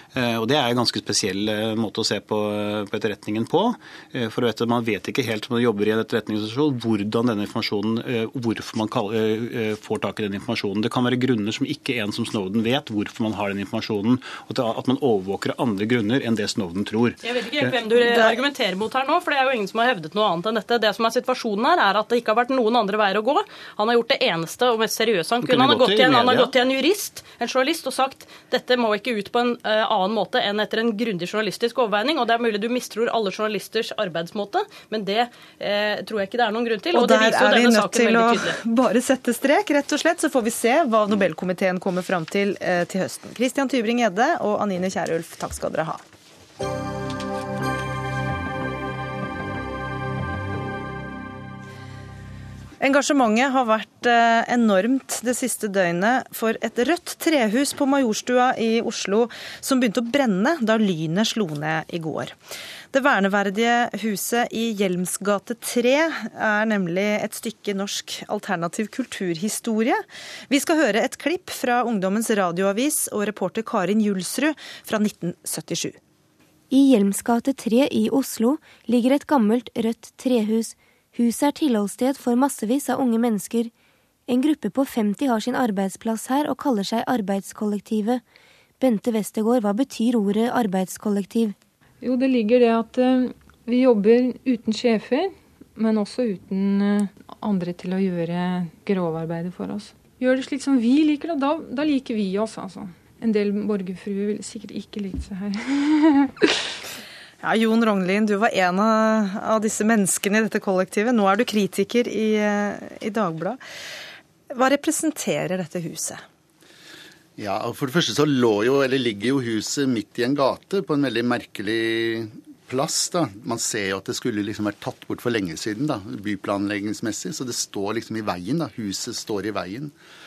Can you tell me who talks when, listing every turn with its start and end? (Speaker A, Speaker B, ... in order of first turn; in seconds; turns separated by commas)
Speaker A: 0.1-17.8, Speaker B: 17.2-38.6, Speaker A: 25.4-26.5, Speaker C: 36.9-46.0, Speaker C: 52.8-62.3, Speaker C: 62.9-76.0, Speaker D: 76.7-83.7, Speaker D: 84.3-88.2, Speaker D: 88.8-91.6, Speaker E: 92.0-106.5, Speaker C: 107.4-113.6, Speaker C: 114.5-116.2, Speaker F: 117.4-129.9